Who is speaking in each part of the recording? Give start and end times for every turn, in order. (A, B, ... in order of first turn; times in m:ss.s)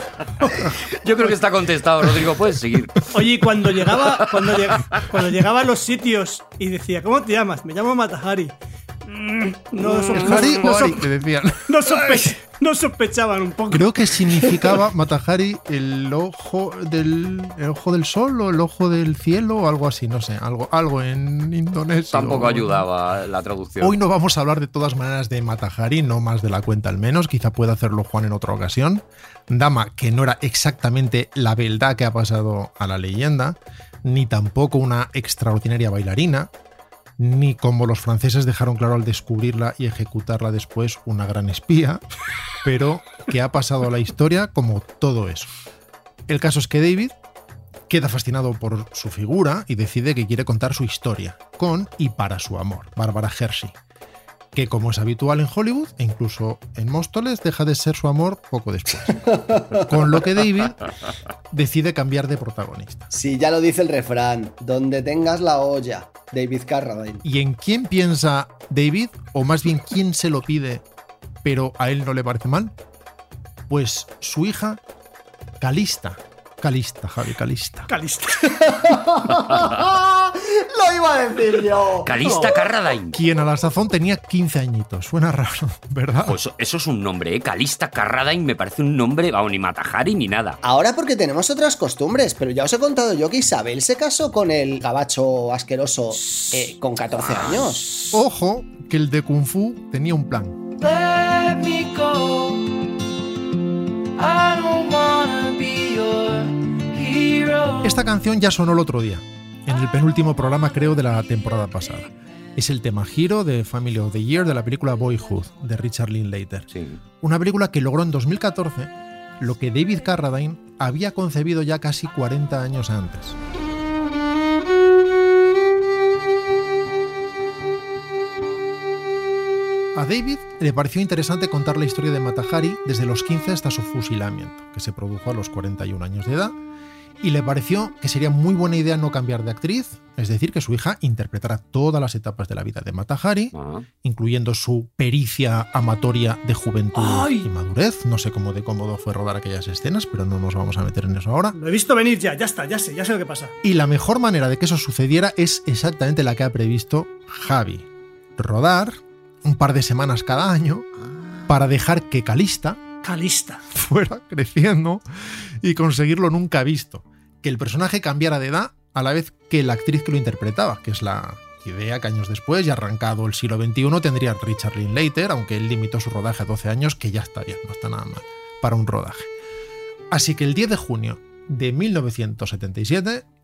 0:00.9-0:03.0 A
0:03.1-0:11.0 B
0:10.1-0:12.3 C
0:11.6-0:14.7 B
0:13.7-0:22.8 C
0:22.1-0:24.0 A
0:23.8-0:36.5 C
0:37.2-0:42.0 C
0:42.6-0:45.5 C
0:46.3-0:47.1 C
0:47.9-0:53.7 C
0:54.5-1:00.9 C
0:59.2-0:59.9 D
1:01.5-1:03.1 C
1:03.1-1:07.2 D
1:07.2-1:10.8 C
1:11.4-1:12.7 C
1:13.7-1:14.8 C
1:15.6-1:17.9 C
1:17.9-1:18.6 B
1:18.5-1:22.1 D
1:22.0-1:23.2 A
1:22.2-1:22.5 B
1:23.1-1:26.4 C
1:26.3-1:30.6 A
1:30.6-1:38.0 D
1:38.1-1:40.6 C
1:40.8-1:42.6 E
1:44.2-1:47.8 E
1:47.8-1:56.7 C
1:56.7-1:57.0 A
1:57.2-2:03.4 C
2:09.9-2:16.5 C
2:17.2-2:31.6 C
2:23.5-2:23.8 A
2:26.9-2:27.5 B
2:31.5-2:33.5 B
2:33.6-2:37.8 C
2:38.4-2:40.9 C
2:41.5-2:42.8 C
2:43.0-2:43.6 B
2:43.7-2:45.0 C
2:45.6-2:59.3 C
3:00.1-3:03.2 C